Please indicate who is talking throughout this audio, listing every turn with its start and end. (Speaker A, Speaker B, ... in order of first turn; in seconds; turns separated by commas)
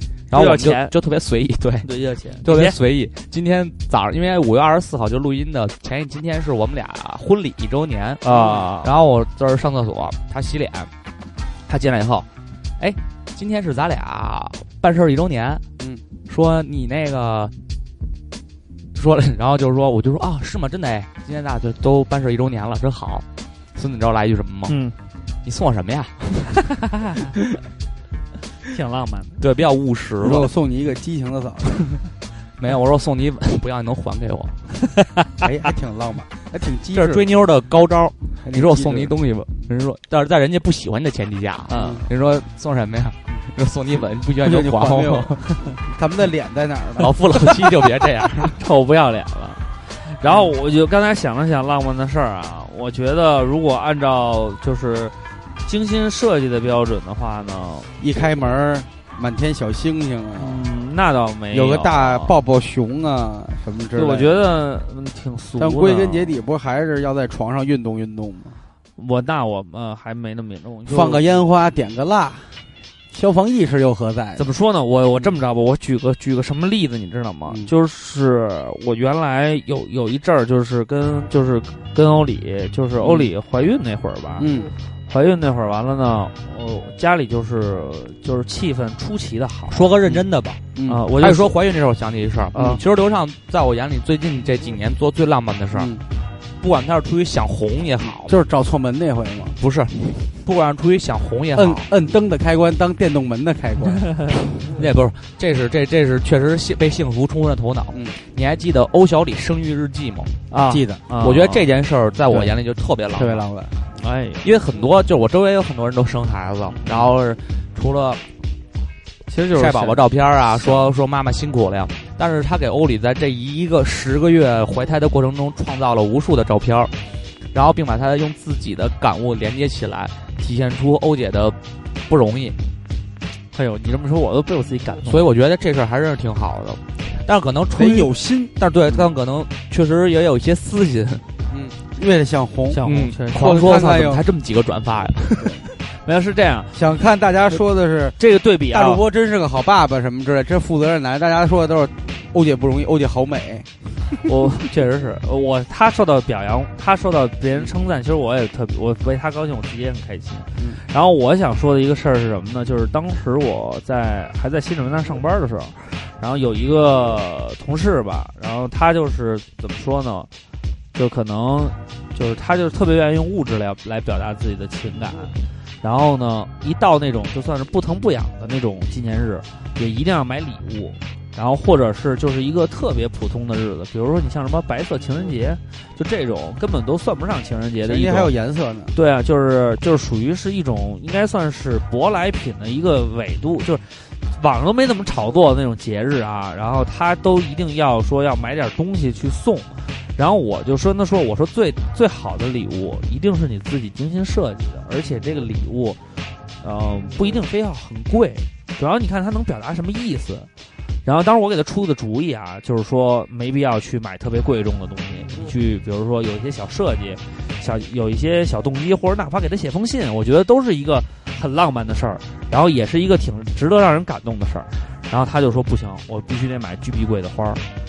Speaker A: 0.3-1.9, Speaker B: 0.3-0.9, Speaker B: 1.8-2.8, Speaker A: 2.4-10.9, Speaker B: 8.2-8.9, Speaker A: 11.7-12.3, Speaker A: 12.8-15.6, Speaker A: 16.2-17.5, Speaker A: 18.9-24.8, Speaker B: 24.7-24.9, Speaker A: 25.4-26.6, Speaker B: 26.9-27.3, Speaker B: 28.7-29.4, Speaker A: 29.4-30.5, Speaker C: 30.2-32.0, Speaker A: 32.6-34.6, Speaker C: 35.4-37.3, Speaker A: 36.9-45.4, Speaker C: 38.4-39.1, Speaker B: 41.7-42.0, Speaker C: 41.7-42.0, Speaker C: 44.4-47.2, Speaker A: 47.0-48.6, Speaker B: 48.6-57.9, Speaker C: 58.0-60.6, Speaker B: 60.4-62.3, Speaker C: 61.5-64.4, Speaker B: 63.9-66.4, Speaker C: 65.6-68.6, Speaker B: 69.0-71.2, Speaker C: 70.9-74.5, Speaker B: 74.4-84.5, Speaker C: 83.0-83.3, Speaker C: 84.4-84.7, Speaker B: 85.1-89.9, Speaker A: 89.7-90.6, Speaker C: 90.7-91.0, Speaker B: 90.9-91.5, Speaker A: 91.2-95.9, Speaker C: 92.5-92.8, Speaker C: 95.7-96.0, Speaker A: 96.6-98.3, Speaker C: 98.0-99.6, Speaker A: 99.6-101.9, Speaker C: 101.5-104.2, Speaker A: 104.6-110.3, Speaker B: 110.5-111.7, Speaker C: 110.7-111.0, Speaker A: 111.2-113.5, Speaker C: 113.1-113.7, Speaker B: 114.0-114.5, Speaker A: 114.4-118.2, Speaker B: 116.7-117.1, Speaker B: 119.3-120.9, Speaker A: 119.5-126.9, Speaker A: 127.5-132.6, Speaker B: 133.5-135.3, Speaker A: 135.0-141.2, Speaker C: 137.7-139.1, Speaker C: 141.5-144.2, Speaker B: 142.7-143.6, Speaker A: 142.8-145.6, Speaker B: 146.0-146.8, Speaker C: 146.7-148.2, Speaker B: 148.2-149.0, Speaker C: 148.7-153.7, Speaker B: 154.2-170.3, Speaker B: 170.9-188.3, Speaker C: 187.8-188.9, Speaker B: 188.9-206.0, Speaker B: 206.6-210.5, Speaker B: 211.0-227.6